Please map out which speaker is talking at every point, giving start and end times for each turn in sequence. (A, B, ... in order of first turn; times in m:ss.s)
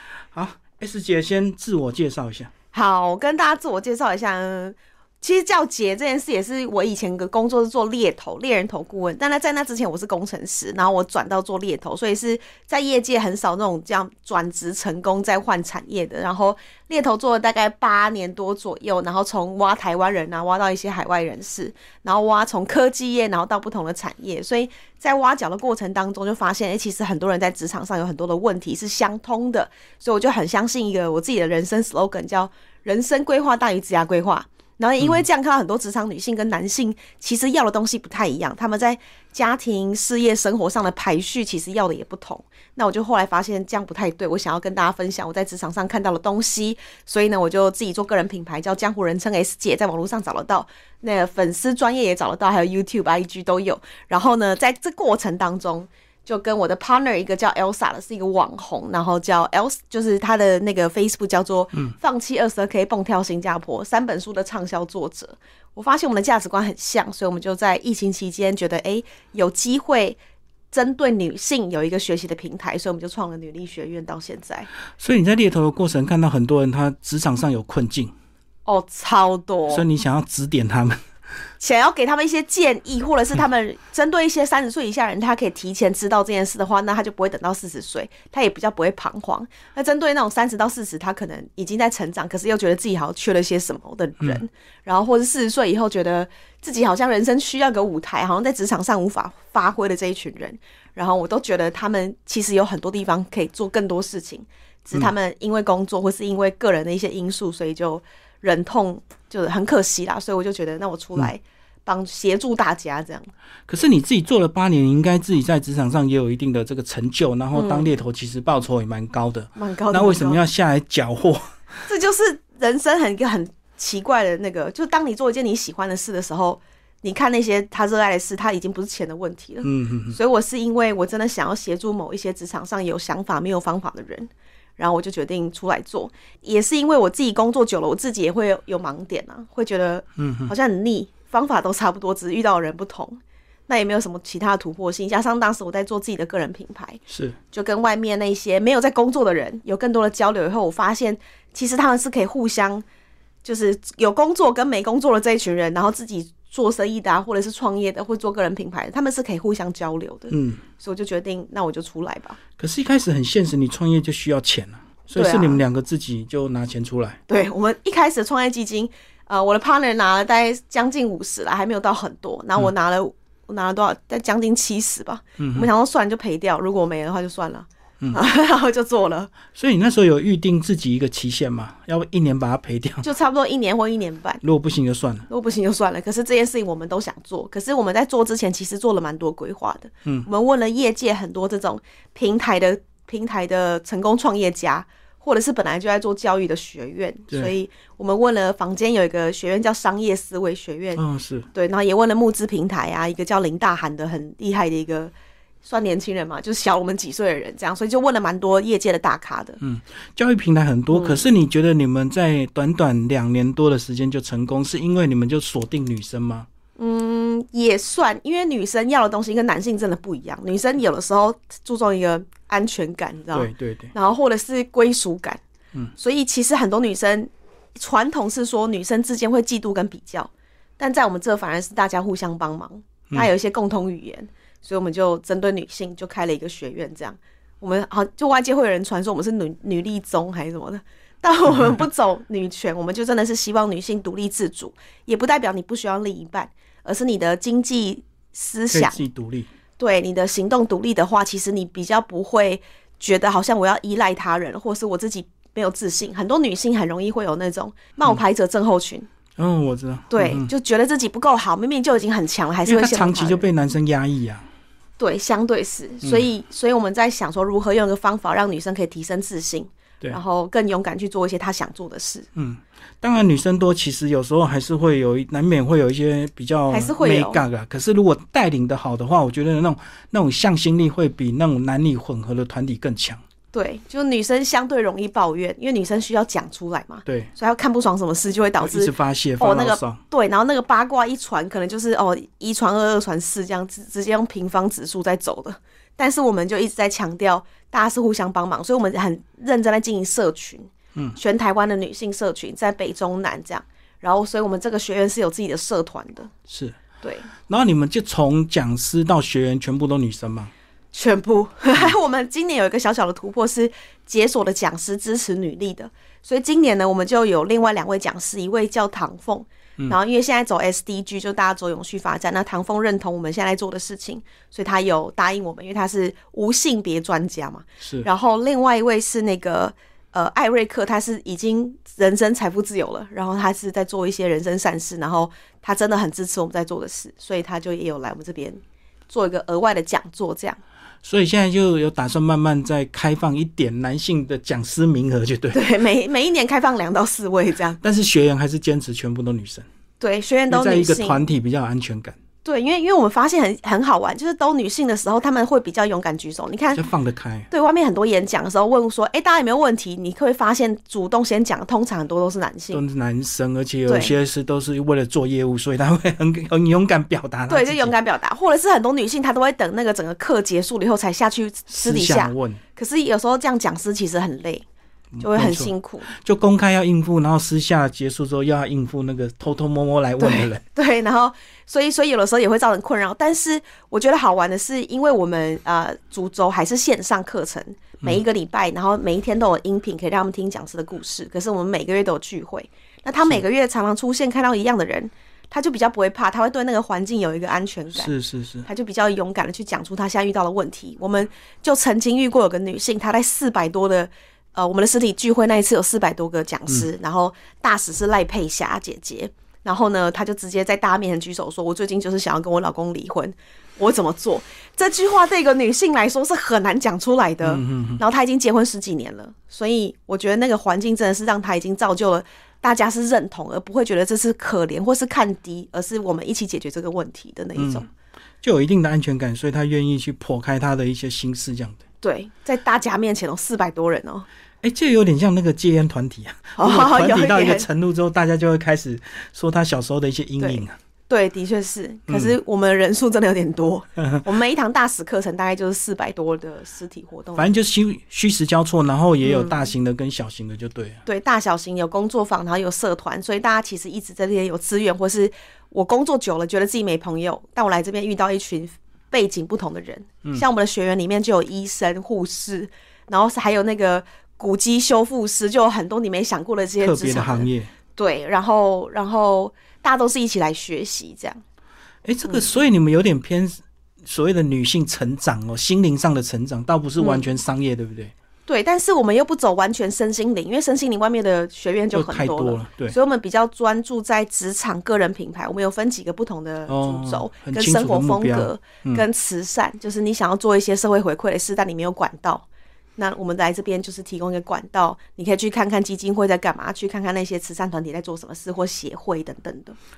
0:00.3-0:02.5 A
0:02.7-1:10.2 B
1:10.7-1:14.7 B
1:15.0-1:18.1 A
1:18.6-1:19.8 B
1:19.7-1:21.0 A
1:21.6-1:53.3 B
1:53.7-2:01.6 A
1:57.5-1:57.9 B
1:59.6-2:00.4 B
2:01.9-2:32.8 B
2:09.6-2:10.2 A
2:20.2-2:20.5 A
2:27.1-2:27.4 A
2:33.4-2:42.4 B
2:40.3-2:40.6 A
2:42.6-2:47.2 A
2:45.1-2:45.6 B
2:47.3-2:59.4 B
2:55.4-2:55.7 A
2:59.5-3:03.1 A
3:03.0-3:04.4 B
3:04.4-3:05.3 A
3:05.3-3:21.0 B
3:21.0-3:21.5 A
3:21.5-3:25.1 B
3:25.6-3:29.6 B
3:29.6-3:36.5 A
3:30.9-3:31.2 B
3:36.8-3:45.4 B
3:43.3-3:43.9 A
3:46.0-4:09.0 B
4:01.5-4:01.8 A
4:08.7-4:09.5 A
4:09.8-4:19.1 B
4:19.4-4:20.5 A
4:20.1-4:23.4 B
4:22.6-4:24.4 A
4:25.0-4:32.3 B
4:32.3-4:43.2 A
4:36.7-4:37.4 B
4:43.5-5:06.3 B
4:48.6-4:50.0 A
5:06.5-5:06.8 A
5:07.0-5:07.3 B
5:07.5-5:10.5 A
5:10.9-5:40.6 B
5:27.8-5:28.1 A
5:41.0-5:45.6 A
5:45.5-5:47.8 B
5:47.8-5:49.6 A
5:50.0-5:51.2 B
5:50.5-5:52.2 A
5:52.4-5:56.8 B
5:56.7-5:57.5 A
5:57.5-6:02.8 B
6:02.7-6:07.9 A
6:03.9-6:04.1 B
6:07.5-6:14.6 B
6:11.7-6:12.6 A
6:15.1-6:20.6 A
6:15.2-6:16.1 B
6:20.2-6:38.1 B
6:37.9-6:38.7 A
6:38.6-7:07.9 B
6:57.4-6:58.0 A
7:07.6-7:07.9 A
7:08.4-7:11.8 A
7:12.0-7:14.2 B
7:14.6-7:20.7 A
7:16.6-7:17.7 B
7:20.4-7:27.5 B
7:22.1-7:22.3 A
7:27.4-7:31.0 A
7:29.2-7:29.7 B
7:31.0-7:51.4 B
7:46.8-7:47.7 A
7:52.0-7:58.1 A
7:57.0-7:57.2 B
7:58.5-8:12.4 B
8:01.9-8:03.0 A
8:06.7-8:09.0 A
8:13.0-8:19.8 B